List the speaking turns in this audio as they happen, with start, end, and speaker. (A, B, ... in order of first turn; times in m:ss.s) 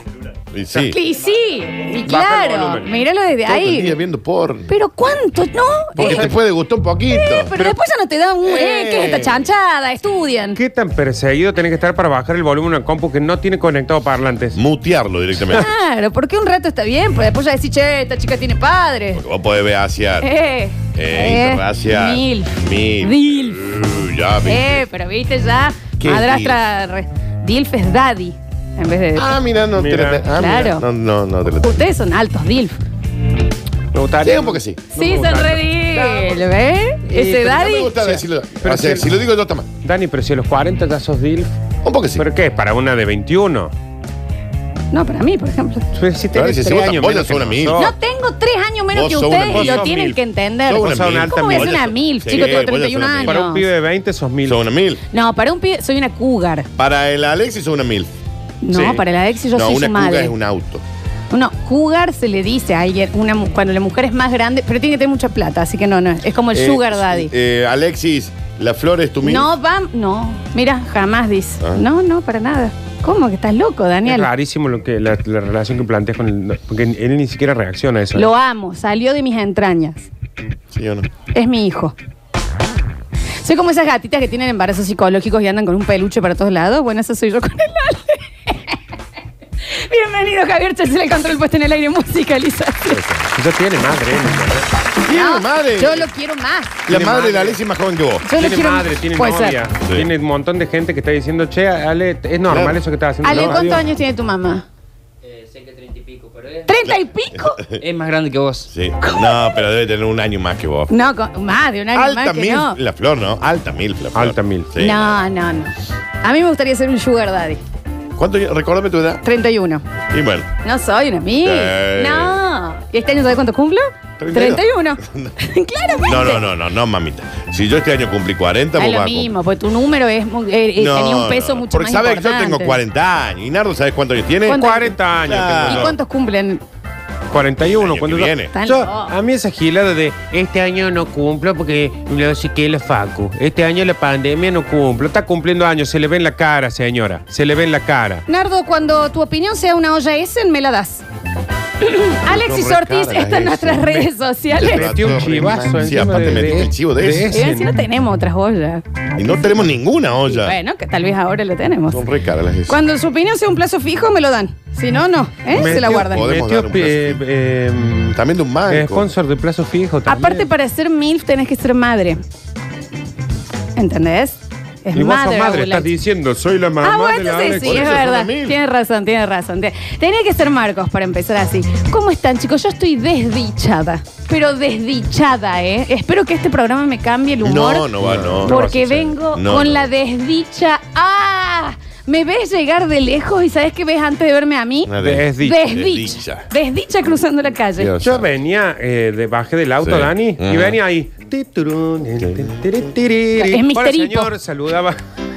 0:00.5-0:01.0 A
0:00.8-0:04.0 B
0:02.0-0:02.9 C
0:03.5-0:04.7 A
0:04.7-0:06.3 B
0:06.0-0:07.5 A
0:06.0-0:06.3 C
0:07.1-0:10.6 B
0:08.5-0:09.3 A
0:10.6-0:14.6 C
0:14.6-0:15.7 A
0:15.5-0:19.2 B
0:19.1-0:20.3 A
0:20.2-0:23.6 B
0:20.9-0:24.8 A
0:24.5-0:29.4 B
0:26.0-0:26.6 A
0:29.1-0:31.8 A
0:29.8-0:30.3 C
0:30.3-0:30.9 B
0:31.5-0:32.8 B
0:33.9-0:35.7 C
0:34.2-0:34.9 A
0:35.0-0:38.2 B
0:36.0-0:36.4 A
0:37.1-0:37.7 C
0:37.3-0:39.7 A
0:38.6-0:39.1 C
0:39.8-0:41.5 C
0:41.8-0:42.3 A
0:42.2-0:43.7 C
0:44.9-0:45.9 B
0:46.0-0:47.9 C
0:46.3-0:47.9 A
0:47.8-0:53.6 B
0:48.9-0:49.9 A
0:49.4-0:50.2 C
0:50.7-0:53.4 A
0:50.7-0:52.6 C
0:53.2-0:54.6 C
0:54.4-0:55.0 A
0:55.1-0:56.7 B
0:56.8-0:58.1 A
0:58.6-1:00.3 B
0:58.7-0:59.0 C
0:59.5-1:00.8 A
1:01.3-1:07.3 B
1:06.5-1:09.5 A
1:09.2-1:14.3 B
1:14.1-1:18.3 C
1:18.2-1:20.1 B
1:20.7-1:21.1 A
1:21.3-1:22.0 B
1:23.4-1:28.8 B
1:29.6-1:33.0 B
1:32.9-1:33.3 A
1:33.3-1:34.7 C
1:35.0-1:36.1 A
1:35.1-1:36.9 B
1:36.9-1:38.3 A
1:36.9-1:37.6 C
1:38.2-1:39.6 B
1:38.4-1:43.9 C
1:39.8-1:40.1 A
1:42.5-1:43.7 A
1:43.2-1:44.6 B
1:45.2-1:46.8 D
1:46.7-1:47.6 B
1:46.8-1:47.8 A
1:47.8-1:48.7 D
1:48.7-1:51.0 A
1:49.0-1:49.3 B
1:50.9-1:52.8 B
1:51.9-1:55.2 A
1:54.2-1:54.7 C
1:54.8-1:57.6 B
1:58.2-1:59.2 A
1:59.2-1:59.8 B
2:00.1-2:00.5 A
2:00.6-2:06.4 B
2:01.4-2:02.4 A
2:04.2-2:05.3 A
2:06.1-2:09.3 A
2:08.8-2:12.8 B
2:10.8-2:16.0 A
2:14.5-2:14.9 B
2:14.5-2:15.9 C
2:15.7-2:16.6 B
2:17.3-2:28.2 C
2:17.6-2:18.6 A
2:18.5-2:19.1 B
2:28.3-2:31.0 B
2:31.8-2:34.9 B
2:32.2-2:37.3 A
2:34.6-2:37.8 C
2:37.3-2:38.9 B
2:39.2-2:40.6 A
2:40.3-2:42.0 B
2:41.9-2:42.8 A
2:42.7-2:46.3 B
2:45.5-2:48.2 C
2:45.5-2:47.2 A
2:48.1-2:49.1 A
2:48.7-2:50.5 C
2:50.1-2:52.2 B
2:53.8-2:55.9 B
2:54.9-2:58.0 C
2:56.8-3:17.9 B
2:57.6-2:58.6 A
3:07.4-3:09.9 A
3:08.1-3:08.8 C
3:14.9-3:16.5 A
3:15.0-3:15.6 C
3:17.8-3:18.3 A
3:18.0-3:25.0 C
3:19.8-3:20.8 A
3:22.2-3:22.6 A
3:23.4-3:24.3 B